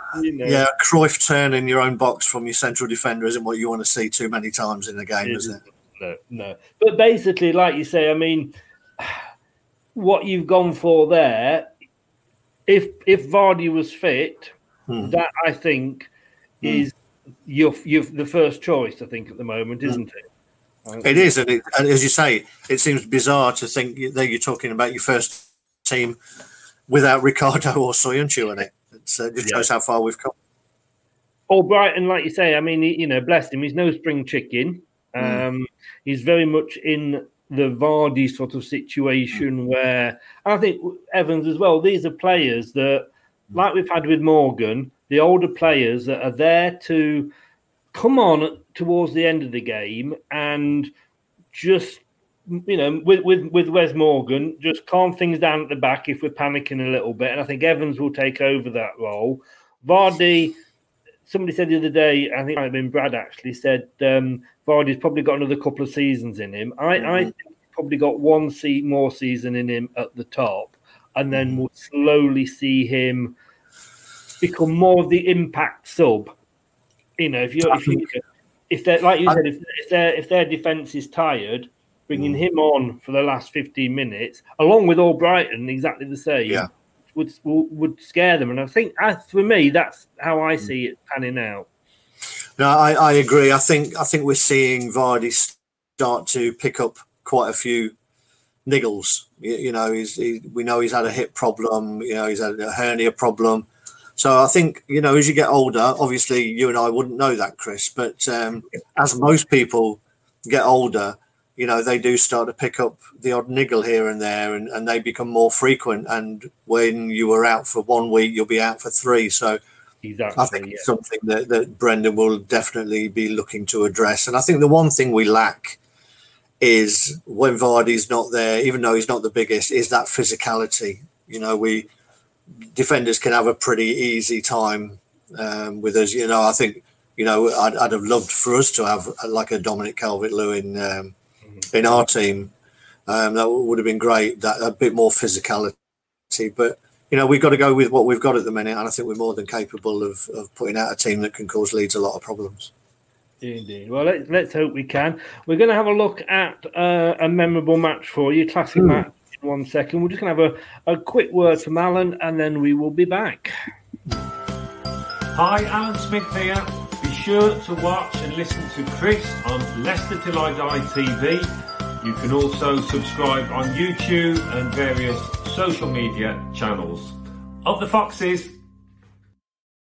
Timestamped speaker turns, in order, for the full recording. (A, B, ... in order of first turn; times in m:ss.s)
0:00.1-0:00.6 A
0:00.4-0:05.6 B
0:05.2-0:09.2 A
0:09.9-0:11.7 A
0:12.7-0:16.1 A
0:14.9-0:15.1 B
0:16.6-0:16.9 B
0:16.6-0:20.2 A
0:20.8-0:21.3 A
0:21.0-0:26.2 B
0:26.9-0:30.3 B
0:31.5-0:47.3 A
0:35.2-0:35.4 B
0:47.9-0:50.9 A
0:51.5-1:00.6 A
1:01.2-1:13.3 A
1:07.0-1:07.3 B
1:11.3-1:11.6 B
1:14.4-1:16.3 A
1:17.2-1:31.7 A
1:17.7-1:18.0 B
1:22.1-1:22.4 B
1:32.6-1:37.9 B
1:38.6-1:59.6 B
2:00.0-2:00.9 A
2:00.3-2:05.8 B
2:06.6-2:11.9 B
2:12.7-2:21.1 B
2:21.7-2:22.5 B
2:23.1-2:25.7 B
2:26.3-2:32.7 B
2:33.4-2:43.5 A
2:38.8-2:39.0 B
2:45.3-2:51.5 C
2:52.0-2:58.6 C